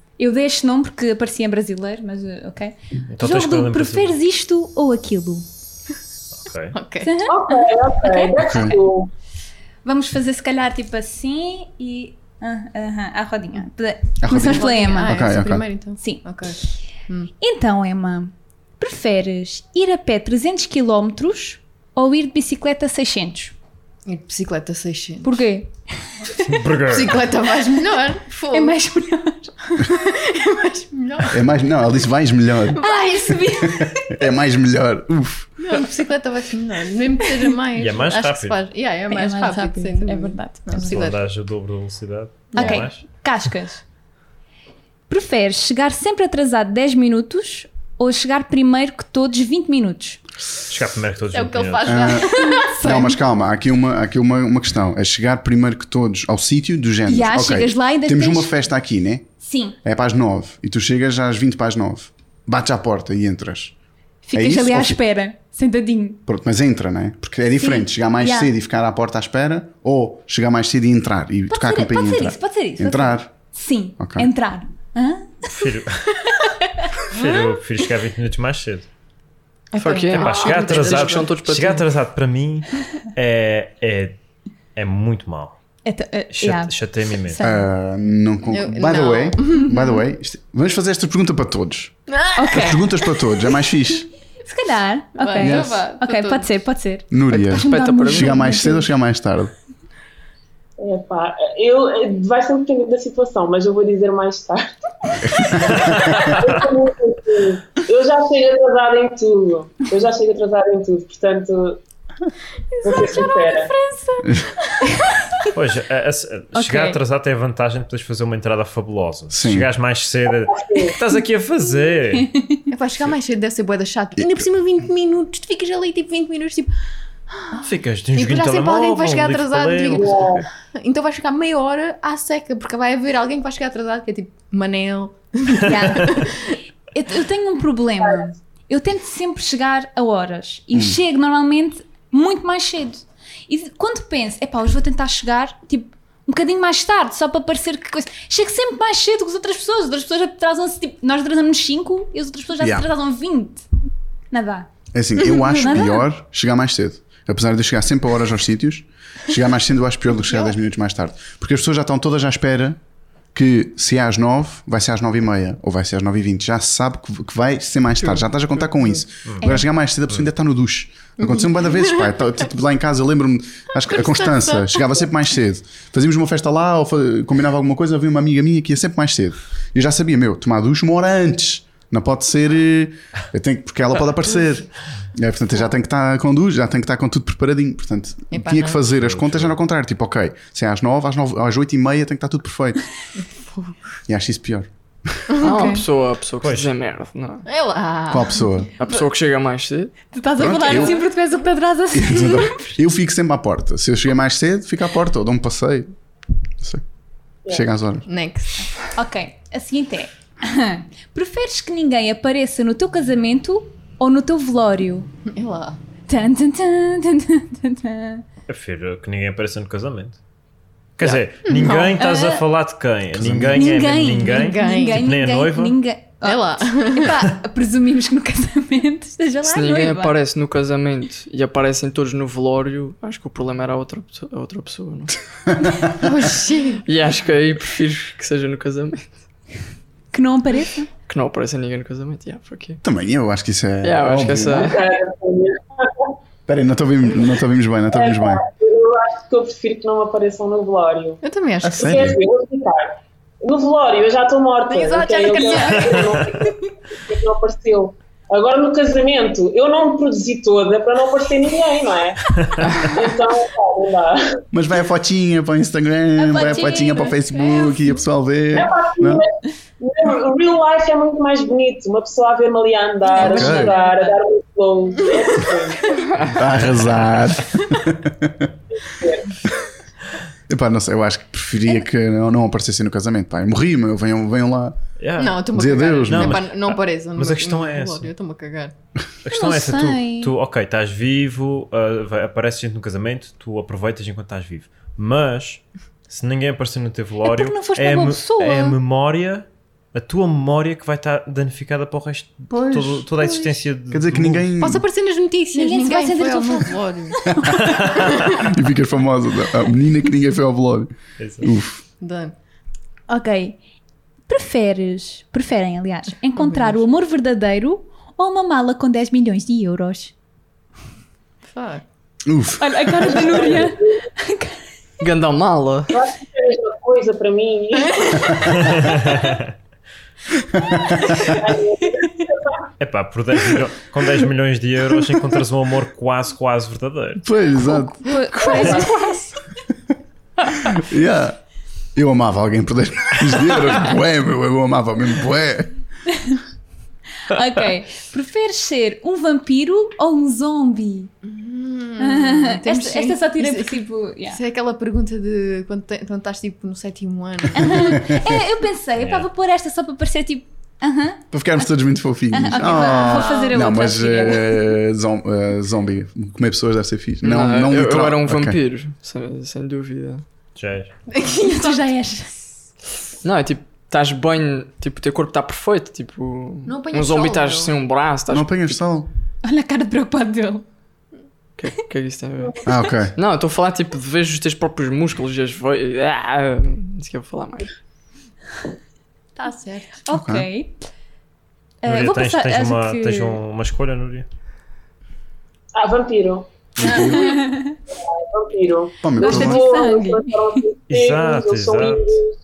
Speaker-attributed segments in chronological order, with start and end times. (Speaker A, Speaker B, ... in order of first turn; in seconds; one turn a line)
Speaker A: 0.2-5.4
Speaker B: 3.1-4.2
Speaker B: 6.4-6.7
Speaker C: 6.7-7.1
Speaker A: 7.0-8.4
Speaker D: 7.2-9.1
Speaker E: 8.4-8.8
Speaker A: 9.8-15.2
Speaker E: 14.2-15.7
Speaker C: 14.4-17.3
Speaker A: 16.0-16.2
Speaker A: 17.4-23.5
Speaker C: 24.1-25.4
Speaker A: 25.2-26.6
Speaker B: 26.4-27.3
Speaker C: 26.9-28.8
Speaker A: 28.5-29.9
Speaker C: 29.8-31.4
Speaker E: 31.3-32.8
Speaker C: 32.8-33.4
Speaker A: 32.8-34.2
Speaker E: 33.6-35.5
Speaker C: 35.6-41.2
Speaker B: 37.7-38.6
Speaker A: 39.1-41.0
Speaker B: 40.8-43.0
Speaker A: 42.5-43.8
Speaker A: 45.1-50.2
Speaker B: 50.7-52.2
Speaker C: 51.3-52.8
Speaker E: 51.8-59.3
Speaker A: 52.4-53.2
Speaker A: 57.1-58.5
Speaker A: 59.4-59.8
Speaker E: 59.8-63.7
Speaker A: 64.2-66.2
Speaker E: 64.3-65.0
Speaker E: 66.3-73.3
Speaker A: 67.6-68.5
Speaker A: 71.5-77.4
Speaker E: 74.0-74.3
Speaker B: 75.5-76.0
Speaker B: 77.1-78.9
Speaker A: 79.7-80.4
Speaker F: 79.7-81.9
Speaker B: 79.9-84.2
Speaker C: 80.2-81.3
Speaker B: 84.8-85.6
Speaker A: 85.8-86.7
Speaker B: 86.3-87.4
Speaker A: 87.3-87.6
Speaker E: 87.4-92.0
Speaker C: 88.5-89.7
Speaker A: 89.6-90.0
Speaker C: 92.1-92.8
Speaker A: 92.3-92.8
Speaker E: 92.5-94.1
Speaker A: 94.4-98.9
Speaker C: 95.2-96.5
Speaker E: 95.4-95.7
Speaker E: 97.1-99.5
Speaker F: 97.3-98.4
Speaker D: 100.8-111.8
Speaker E: 105.2-106.1
Speaker C: 112.7-114.9
Speaker D: 112.8-113.7
Speaker A: 114.9-115.5
Speaker B: 115.5-122.3
Speaker A: 116.5-117.0
Speaker E: 119.3-119.7
Speaker D: 120.5-121.0
Speaker A: 122.1-122.7
Speaker C: 122.7-126.7
Speaker E: 124.2-124.5
Speaker C: 127.3-136.6
Speaker B: 127.6-130.4
Speaker D: 129.9-130.4
Speaker A: 135.6-136.2
Speaker A: 136.9-153.6
Speaker E: 152.6-152.9
Speaker A: 154.3-154.7
Speaker E: 154.9-162.8
Speaker A: 155.2-156.0
Speaker C: 160.2-160.5
Speaker E: 163.3-192.9
Speaker A: 169.4-169.7
Speaker C: 171.2-172.1
Speaker C: 173.9-175.0
Speaker C: 188.3-188.8
Speaker B: 189.0-189.6
Speaker E: 194.1-195.2
Speaker C: 195.3-195.6
Speaker F: 195.4-197.4
Speaker A: 195.4-195.8
Speaker B: 196.4-196.7
Speaker C: 197.4-198.5
Speaker E: 198.1-198.7
Speaker F: 198.8-200.1
Speaker A: 200.1-202.7
Speaker E: 200.4-201.0
Speaker E: 201.9-205.9
Speaker E: 207.5-208.1
Speaker C: 208.1-208.7
Speaker A: 208.9-215.1
Speaker C: 215.3-215.8
Speaker A: 216.1-218.2
Speaker B: 218.5-220.2
Speaker B: 221.0-225.8
Speaker C: 221.4-221.9
Speaker A: 221.6-222.4
Speaker E: 223.1-223.7
Speaker A: 223.5-230.1
Speaker C: 224.2-225.1
Speaker C: 226.2-227.2
Speaker F: 229.4-235.1
Speaker E: 235.5-236.1
Speaker C: 235.9-236.8
Speaker F: 236.8-239.1
Speaker A: 240.1-240.9
Speaker F: 241.1-242.8
Speaker E: 242.8-244.8
Speaker F: 243.8-244.8
Speaker D: 244.6-246.1
Speaker E: 246.5-248.4
Speaker D: 247.9-251.2
Speaker C: 251.2-252.1
Speaker E: 251.6-252.2
Speaker D: 251.7-264.4
Speaker C: 254.7-256.7
Speaker F: 262.6-262.9
Speaker E: 264.5-269.2
Speaker A: 266.2-267.8
Speaker D: 268.5-276.1
Speaker A: 273.1-274.1
Speaker E: 273.2-273.7
Speaker E: 276.3-278.5
Speaker D: 278.8-279.4
Speaker E: 280.5-284.8
Speaker B: 285.0-285.4
Speaker C: 285.2-288.7
Speaker E: 285.5-286.4
Speaker B: 286.0-288.1
Speaker B: 289.2-304.5
Speaker A: 289.3-290.3
Speaker A: 297.2-298.8
Speaker E: 303.9-304.8
Speaker C: 304.6-307.3
Speaker A: 305.5-307.6
Speaker B: 307.7-308.3
Speaker C: 307.9-308.4
Speaker E: 308.4-311.8
Speaker B: 311.2-311.4
Speaker C: 312.0-312.3
Speaker A: 313.1-313.6
Speaker A: 314.3-320.1
Speaker C: 316.3-316.8
Speaker C: 321.4-321.8
Speaker E: 322.2-323.2
Speaker A: 322.6-324.6
Speaker D: 323.0-324.0
Speaker F: 325.0-325.9
Speaker D: 325.9-328.4
Speaker C: 328.0-328.3
Speaker B: 328.5-329.5
Speaker E: 330.5-331.0
Speaker A: 331.1-331.4
Speaker D: 331.2-332.6
Speaker B: 332.8-337.2
Speaker E: 337.2-337.9
Speaker A: 337.6-339.4
Speaker C: 338.4-339.1
Speaker E: 340.6-341.4
Speaker E: 341.9-345.7
Speaker A: 346.1-346.4
Speaker A: 347.3-351.1
Speaker C: 351.2-358.1
Speaker A: 352.0-354.4
Speaker A: 357.5-361.3
Speaker E: 357.9-358.2
Speaker B: 359.0-359.3
Speaker E: 361.3-368.6
Speaker A: 362.3-364.6
Speaker C: 362.6-363.6
Speaker F: 367.2-370.2
Speaker B: 370.6-370.9
Speaker C: 371.1-371.9
Speaker A: 371.4-372.5
Speaker F: 373.2-378.8
Speaker C: 376.6-377.7
Speaker E: 378.3-379.1
Speaker A: 379.4-380.6
Speaker F: 381.6-387.7
Speaker E: 382.6-383.1
Speaker C: 389.4-390.0
Speaker A: 390.1-390.8
Speaker E: 390.1-390.5
Speaker A: 391.8-393.4
Speaker B: 391.8-394.2
Speaker D: 395.8-396.5
Speaker E: 396.8-397.4
Speaker A: 396.8-397.8
Speaker D: 398.1-402.3
Speaker E: 399.0-399.6
Speaker A: 399.1-400.3
Speaker B: 400.9-402.2